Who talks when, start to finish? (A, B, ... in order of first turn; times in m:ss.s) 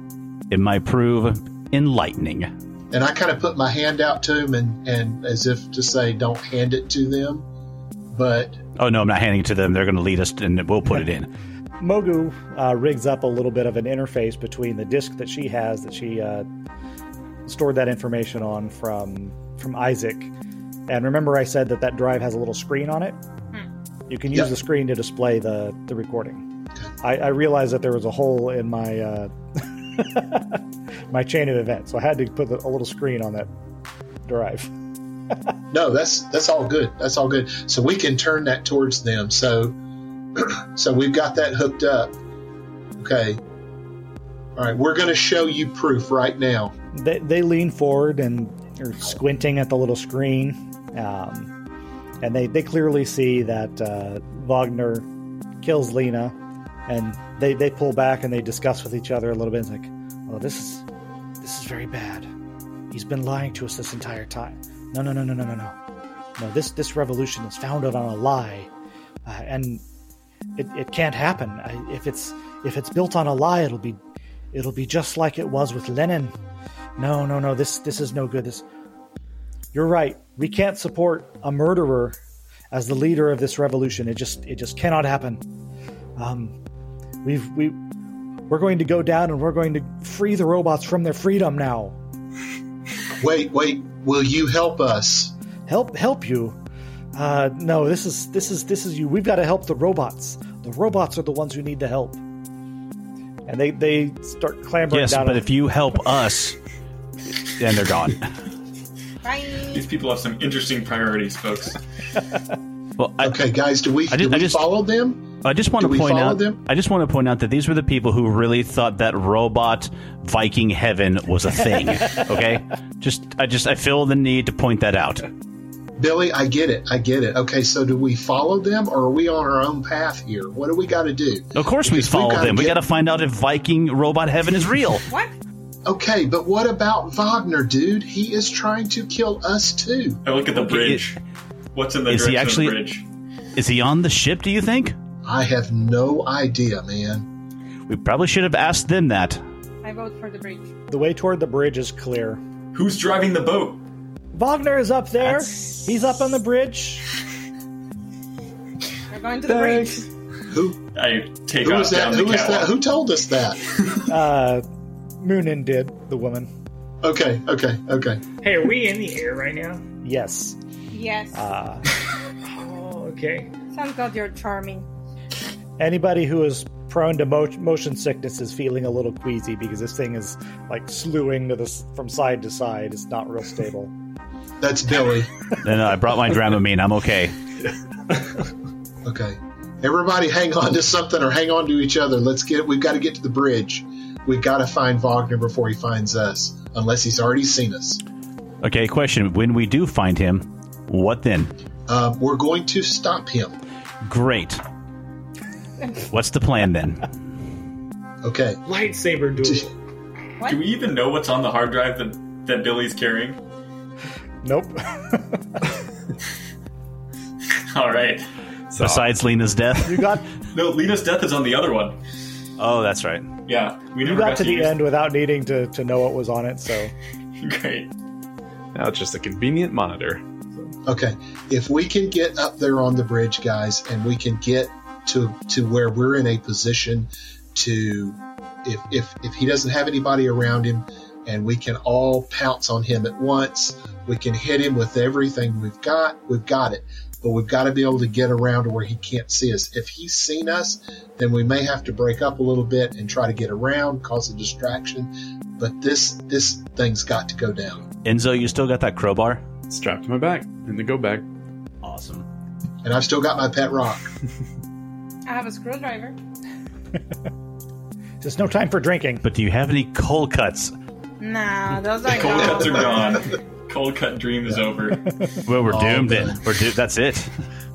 0:00.5-0:02.5 A
0:02.9-0:07.4 B
0:08.1-0:08.6 B
0:08.8-0:11.3 A
0:11.8-0:16.4 C
0:17.4-0:20.3 C
0:20.9-0:23.2 C
0:24.1-0:26.4 C
0:27.0-0:30.6 C
0:31.1-0:33.5 C
0:34.2-0:34.7 C
0:35.7-0:39.8 B
0:40.4-0:42.1 B
0:43.0-0:43.4 B
0:44.6-0:46.7 B
0:46.9-0:51.5 C
0:52.2-0:55.0 C
0:55.6-0:56.3 C
0:56.9-1:00.8 C
1:01.4-1:02.3 C
1:02.9-1:05.7 C
1:06.4-1:08.7 C
1:09.2-1:09.8 C
1:10.6-1:14.0 C
1:14.5-1:16.3 C
1:17.0-1:18.6 C
1:19.7-1:22.2 C
1:22.7-1:25.4 C
1:26.2-1:26.6 C
1:27.2-1:27.8 C
1:28.5-1:32.0 C
1:33.2-1:35.3 B
1:35.7-1:36.6 C
1:37.1-1:42.2 C
1:43.4-1:45.5 C
1:44.9-1:46.6 A
1:47.4-1:48.3 A
1:49.2-1:49.8 D
1:49.7-1:51.8 E
1:53.0-1:53.4 A
1:53.2-1:55.2 B
1:54.1-1:54.7 A
1:55.4-2:05.2 A
1:55.8-1:56.6 B
2:06.0-2:12.8 B
2:11.5-2:15.0 A
2:15.8-2:20.2 B
2:20.2-2:21.2 E
2:20.5-2:21.0 A
2:21.7-2:23.0 E
2:22.1-2:22.8 A
2:23.6-2:25.0 A
2:25.2-2:27.3 B
2:27.9-2:29.4 A
2:29.8-2:30.7 D
2:30.9-2:32.4 C
2:32.7-2:33.8 E
2:34.3-2:37.0 C
2:39.1-2:40.0 D
2:39.5-2:40.0 F
2:40.5-2:40.8 B
2:40.9-2:42.7 E
2:41.6-2:43.6 B
2:44.1-2:44.6 C
2:45.2-2:46.5 C
2:47.0-2:48.2 B
2:48.4-2:49.8 G
2:50.0-2:50.6 C
2:50.9-2:51.4 D
2:51.3-2:51.8 C
2:52.5-2:53.5 G
2:53.7-2:54.8 D
2:55.8-3:03.9 C
3:04.6-3:05.3 B
3:05.6-3:07.4 A
3:09.0-3:18.0 B
3:18.6-3:21.5 A
3:21.9-3:23.6 B
3:24.0-3:24.6 A
3:26.0-3:27.1 A
3:28.2-3:28.6 B
3:28.6-3:29.7 G
3:29.4-3:29.7 B
3:30.4-3:33.4 E
3:34.4-3:35.4 C
3:37.6-3:38.3 E
3:38.7-3:39.1 F
3:38.8-3:40.2 A
3:39.8-3:40.2 C
3:40.5-3:42.0 E
3:42.6-3:43.3 A
3:43.5-3:44.7 E
3:44.0-3:46.9 C
3:47.4-3:47.9 E
3:48.7-3:50.7 F
3:50.8-4:17.9 B
4:18.0-4:19.4 A
4:19.7-4:21.2 F
4:21.8-4:22.2 A
4:22.8-4:24.1 B
4:25.3-4:26.2 D
4:28.2-4:29.2 C
4:29.2-4:30.7 A
4:31.2-4:33.0 D
4:32.0-4:35.0 E
4:32.2-4:33.0 B
4:35.4-4:37.3 A
4:35.6-4:36.4 B